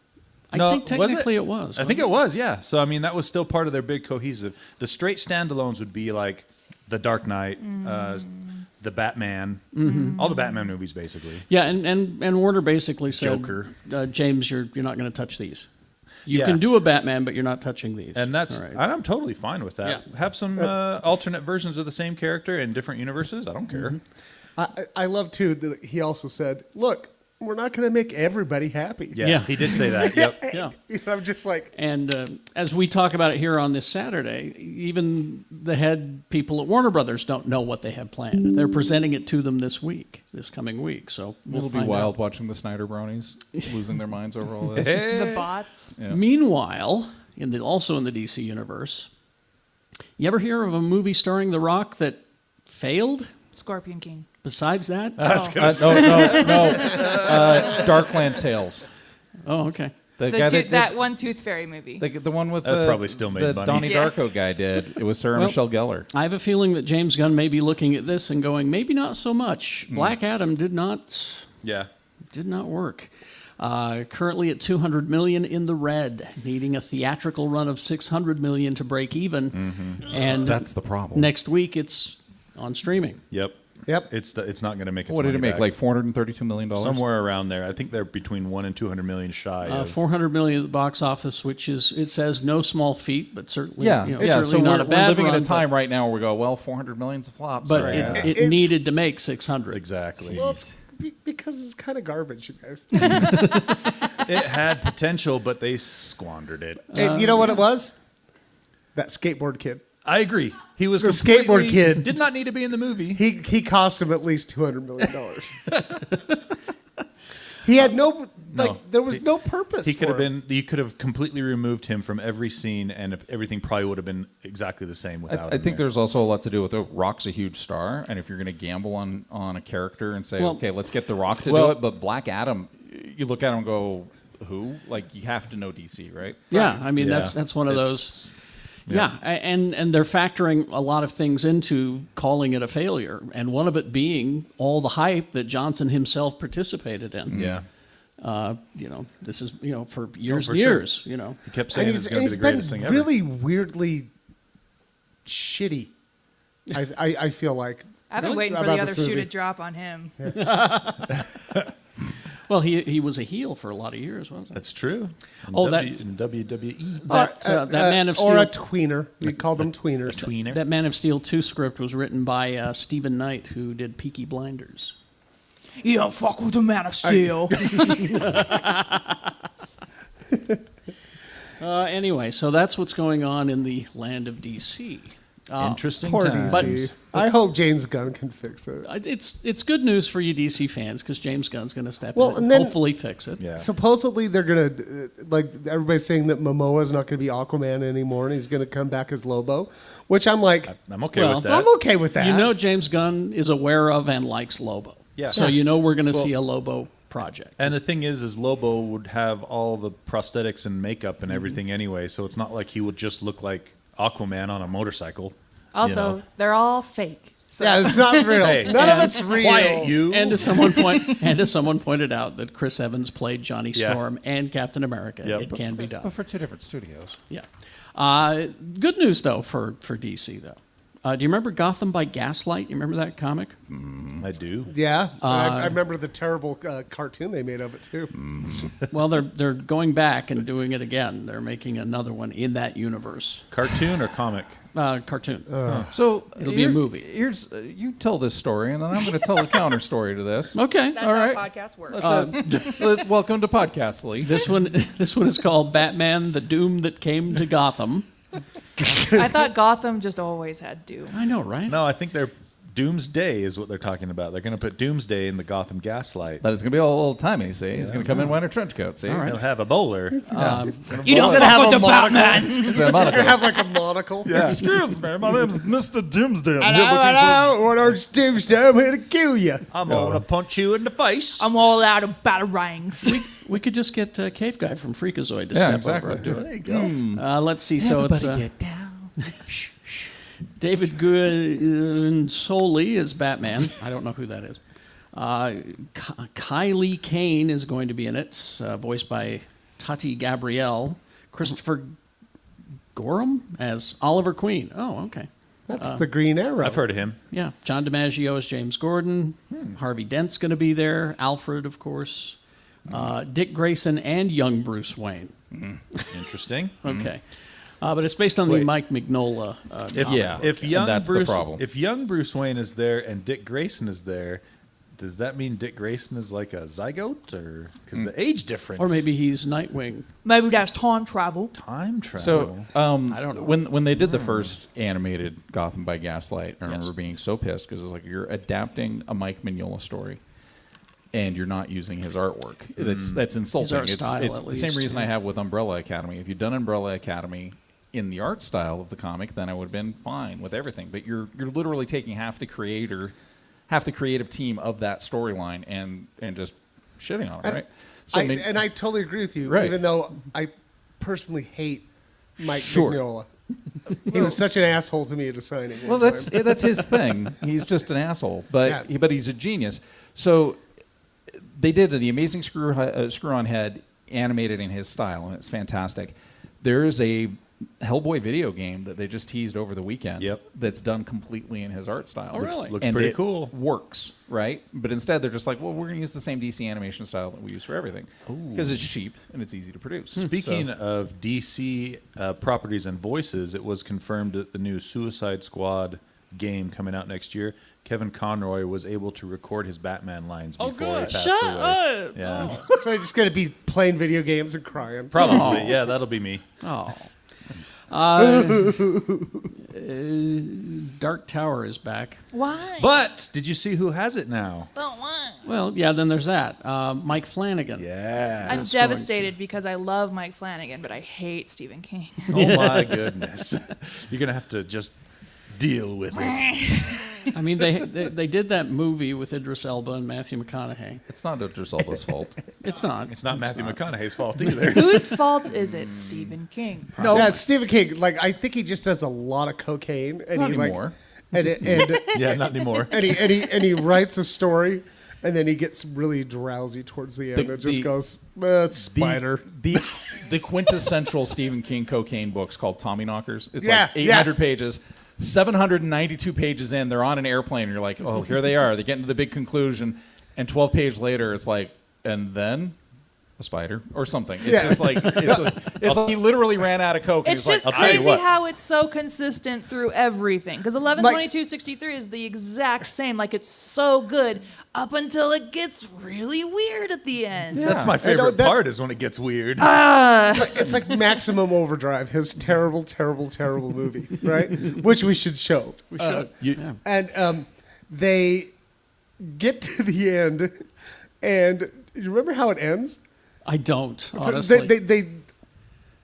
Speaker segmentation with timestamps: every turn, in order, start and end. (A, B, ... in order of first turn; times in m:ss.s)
0:00.5-0:02.1 A
0:00.5-0:11.4 B
0:07.6-0:08.4 C
0:09.7-0:10.2 A
0:09.8-0:10.7 C
0:11.5-0:15.7 A
0:13.1-0:13.7 B
0:16.3-0:18.8 A
0:16.3-0:16.6 B
0:18.2-0:24.0 B
0:24.6-0:31.7 D
0:29.1-0:30.4 B
0:29.2-0:30.8 A
0:31.7-0:42.1 A
0:41.5-0:45.1 E
0:44.8-0:45.5 B
0:45.0-0:46.0 C
0:46.1-0:49.1 A
0:50.2-0:53.3 A
0:53.6-0:54.3 C
0:54.4-0:55.5 A
0:55.2-0:57.9 B
0:55.2-0:57.3 C
0:55.6-0:58.8 E
0:59.5-0:59.9 A
1:00.2-1:00.9 E
1:00.3-1:02.0 C
1:02.0-1:06.1 E
1:02.6-1:04.0 B
1:03.8-1:04.2 C
1:06.1-1:11.5 A
1:11.6-1:11.9 B
1:12.3-1:23.2 A
1:19.5-1:20.0 B
1:20.3-1:21.3 E
1:23.3-1:25.7 B
1:25.1-1:27.0 E
1:26.8-1:30.0 B
1:29.6-1:35.7 A
1:33.8-1:38.3 E
1:37.6-1:39.8 A
1:37.7-1:38.3 B
1:38.1-1:38.8 D
1:39.7-1:40.5 B
1:40.3-1:40.6 E
1:40.3-1:43.6 D
1:43.2-1:43.7 A
1:44.1-1:47.2 B
1:46.9-1:47.6 A
1:47.0-1:48.0 D
1:49.0-1:49.8 D
1:50.0-1:53.2 B
1:51.0-1:52.2 D
1:53.1-1:55.7 D
1:57.6-2:00.3 D
1:58.5-1:59.2 B
1:59.8-2:05.8 B
2:05.3-2:16.5 E
2:10.4-2:10.6 A
2:11.4-2:11.8 B
2:16.5-2:18.3 A
2:16.6-2:18.3 B
2:18.9-2:27.4 A
2:27.3-2:27.6 E
2:27.3-2:27.6 B
2:28.2-2:31.4 A
2:30.3-2:30.9 B
2:31.4-2:33.1 B
2:31.7-2:34.1 D
2:35.2-2:35.9 D
2:36.7-2:39.3 D
2:38.1-2:40.2 C
2:40.3-2:41.2 A
2:42.5-2:44.6 A
2:44.5-2:47.1 B
2:45.5-2:46.0 A
2:47.0-2:48.5 A
2:47.1-2:50.3 D
2:50.1-2:50.6 B
2:50.5-2:55.0 A
2:55.8-2:58.2 C
2:57.0-2:58.2 D
2:57.9-2:59.3 A
3:01.6-3:05.8 A
3:05.6-3:06.9 B
3:06.0-3:08.9 D
3:06.4-3:06.8 A
3:08.8-3:13.4 A
3:12.2-3:12.8 D
3:13.4-3:13.7 B
3:13.6-3:20.7 D
3:20.7-3:21.7 B
3:21.1-3:21.6 A
3:21.3-3:22.6 D
3:22.2-3:27.8 A
3:25.2-3:25.5 B
3:27.6-3:36.2 B
3:35.7-3:39.0 C
3:37.6-3:40.0 D
3:38.4-3:40.7 B
3:38.7-3:46.1 A
3:43.8-3:44.0 B
3:45.2-3:45.5 B
3:45.8-3:47.2 E
3:47.3-3:53.6 A
3:53.7-3:54.3 E
3:54.2-3:54.7 B
3:54.7-3:58.1 D
3:55.2-3:55.8 A
3:58.1-3:58.7 E
3:58.9-4:03.5 A
4:03.5-4:04.6 B
4:04.7-4:05.6 A
4:05.5-4:05.9 D
4:05.6-4:05.9 B
4:05.9-4:14.5 E
4:06.4-4:07.1 A
4:10.6-4:11.1 A
4:11.0-4:12.8 C
4:14.2-4:18.1 A
4:18.8-4:19.3 D
4:19.0-4:21.2 C
4:21.1-4:21.8 A
4:21.7-4:26.4 B
4:26.4-4:29.3 E
4:27.8-4:28.1 B
4:29.1-4:29.4 A
4:29.2-4:31.6 B
4:30.2-4:34.5 D
4:30.3-4:30.9 A
4:30.4-4:31.4 E
4:31.0-4:33.3 C
4:32.5-4:33.6 E
4:34.2-4:34.6 B
4:34.3-4:37.5 E
4:36.6-4:39.7 D
4:39.7-4:41.4 B
4:39.9-4:40.2 E
4:41.4-4:43.2 C
4:43.0-4:48.5 A
4:45.5-4:47.3 E
4:46.2-4:47.0 B
4:47.8-4:50.1 E
4:50.6-4:54.6 A
4:55.1-5:02.0 A
5:02.9-5:06.0 A
5:05.7-5:06.9 D
5:06.6-5:07.2 B
5:07.3-5:15.4 A
5:09.5-5:09.8 B
5:15.5-5:15.8 E
5:16.1-5:16.8 B
5:16.8-5:17.2 A
5:16.8-5:17.1 E
5:17.8-5:20.8 A
5:20.0-5:24.4 B
5:20.0-5:21.6 E
5:25.0-5:29.0 B
5:28.8-5:30.1 A
5:30.2-5:31.5 C
5:31.5-5:32.7 B
5:32.1-5:40.2 E
5:33.1-5:33.6 A
5:34.0-5:34.5 B
5:41.1-5:53.1 E
5:42.8-5:43.2 B
5:43.6-5:45.1 A
5:53.7-5:58.5 E
5:57.4-6:01.9 D
5:59.5-5:59.8 E
6:02.4-6:03.3 D
6:02.5-6:03.0 E
6:04.0-6:06.4 D
6:05.8-6:10.6 E
6:11.4-6:30.7 E
6:22.3-6:22.8 A
6:22.4-6:23.5 B
6:28.3-6:28.8 B
6:30.2-6:42.6 B
6:40.6-6:42.6 C
6:40.7-6:41.2 A
6:42.6-6:45.8 D
6:45.1-6:46.4 B
6:45.2-6:45.8 A
6:46.6-6:47.1 A
6:47.9-6:48.9 A
6:48.2-6:49.5 D
6:49.6-6:52.2 A
6:52.3-6:53.0 C
6:52.8-6:54.7 B
6:54.8-6:55.4 C
6:55.4-6:57.9 A
6:57.8-6:58.7 B
6:58.5-6:59.3 A
6:58.5-7:02.3 C
7:02.3-7:03.1 A
7:02.3-7:05.0 B
7:05.6-7:07.0 B
7:06.2-7:07.3 C
7:07.3-7:11.0 A
7:11.1-7:12.4 E
7:12.6-7:13.8 A
7:13.1-7:15.1 B
7:14.6-7:17.1 C
7:15.8-7:16.1 E
7:17.0-7:17.3 A
7:17.0-7:17.4 B
7:17.1-7:29.5 D
7:20.4-7:20.9 E
7:21.6-7:23.2 B
7:21.8-7:23.7 C
7:27.3-7:27.9 E
7:28.9-7:42.8 E
7:33.6-7:34.3 D
7:43.4-7:48.2 E
7:44.4-7:45.5 D
7:45.2-7:46.2 B
7:47.2-7:57.7 C
7:47.6-7:48.2 B
7:51.0-7:51.2 D
7:57.5-7:58.0 E
7:57.5-7:59.7 B
7:57.9-7:58.6 D
7:59.6-8:01.0 C
8:00.3-8:06.3 D
8:05.9-8:06.8 A
8:06.8-8:08.5 D
8:09.2-8:10.6 D
8:11.2-8:13.0 D
8:13.4-8:14.8 A
8:14.2-8:15.3 D